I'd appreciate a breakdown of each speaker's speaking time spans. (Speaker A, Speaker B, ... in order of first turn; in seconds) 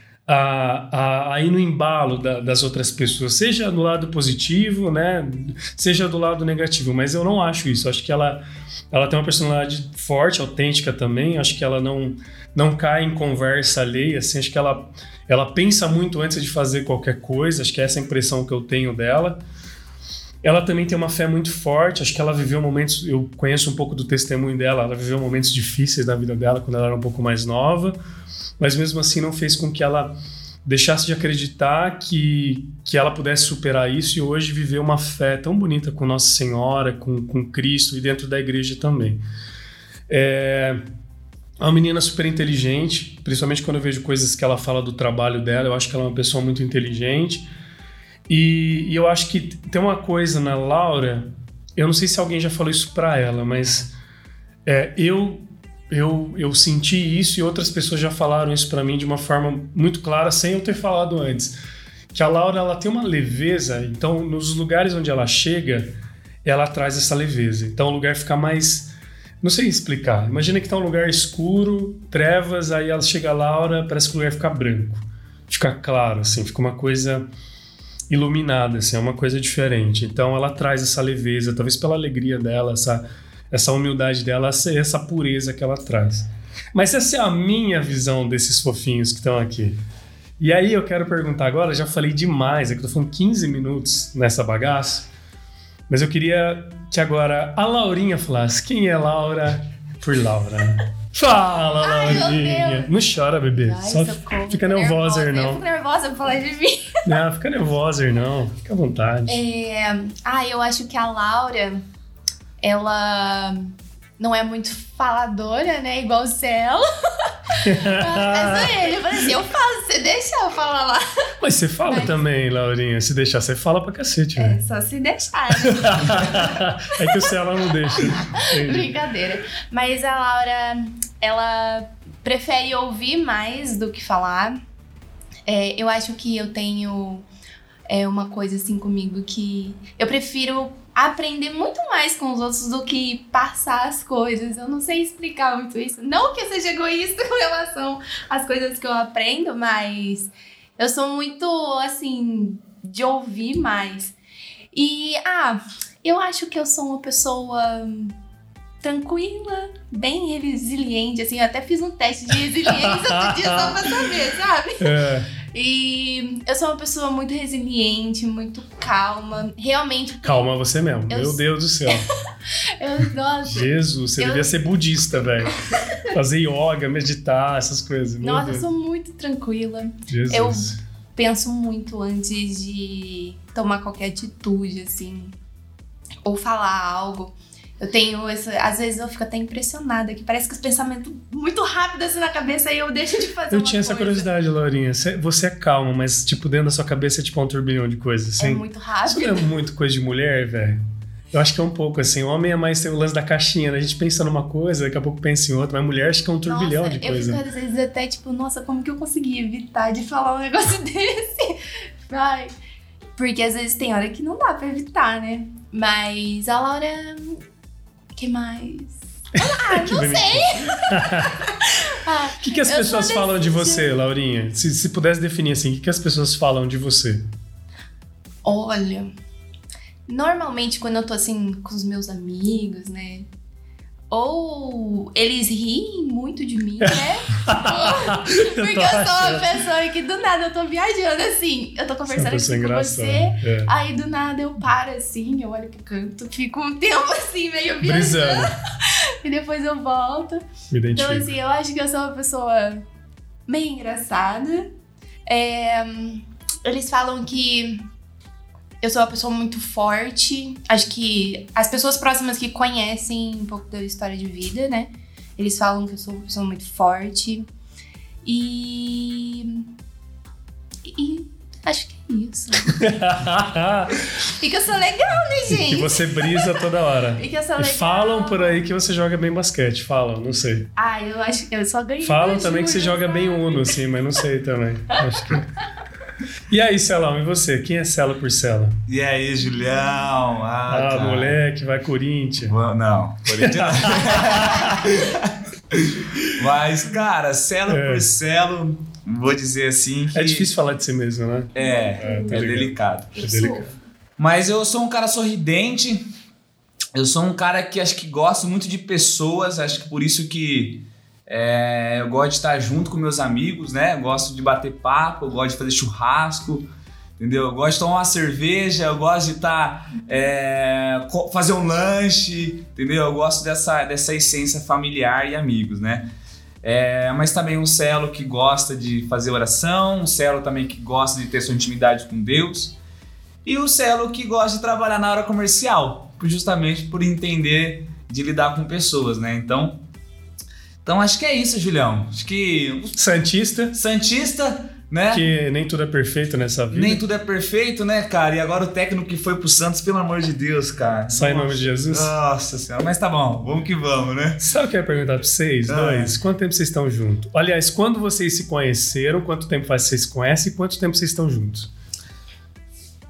Speaker A: 0.3-19.4, 20.4-28.0, 28.6-39.2, 40.1-40.8, 41.6-47.5, 48.3-53.9, 54.6-61.5, 62.1-68.9, 69.4-77.2, 78.1-89.8, 90.4-95.1, 95.9-105.6, 107.0-109.4, 117.6-118.7, 121.4-124.6, 125.6-128.9, 162.7-163.9, 164.8-165.3, 170.2-172.1, 173.5-175.6, 176.1-178.7, 180.1-180.8, 193.5-200.8, 201.3-207.4, 219.4-221.4, 222.4-227.2, 236.8-239.5, 242.1-243.7, 247.8-248.5, 250.7-251.3, 272.7-274.0, 275.5-280.7, 282.0-285.5, 286.5-288.8, 290.7-292.6, 293.3-294.8, 297.7-298.1, 300.1-303.7, 342.9-343.8, 345.1-347.0, 351.1-352.1, 354.4-361.7
Speaker B: 101.8-102.9, 103.5-107.1, 109.3-111.8, 112.6-121.0, 121.9-122.2, 124.4-134.6, 135.4-137.2, 137.9-154.1, 154.7-158.2, 158.8-164.8, 165.5-170.5, 171.1-172.0, 172.8-174.5, 178.2-185.3, 186.2-194.3, 198.4-199.5, 206.4-212.5, 213.2-217.4, 218.2-223.9, 228.4-229.1, 230.1-233.3, 234.1-252.8, 253.5-254.7, 255.2-257.9, 258.8-267.5, 268.2-269.7, 270.8-272.8, 274.3-276.6, 277.2-278.6, 280.8-283.8, 301.6-302.4, 303.1-303.8
Speaker C: 288.9-291.4, 292.5-300.5, 301.5-303.1, 304.2-306.1, 306.9-326.1, 326.6-332.8, 333.4-339.8, 340.8-343.0, 343.7-345.2, 346.7-354.4, 355.7-356.2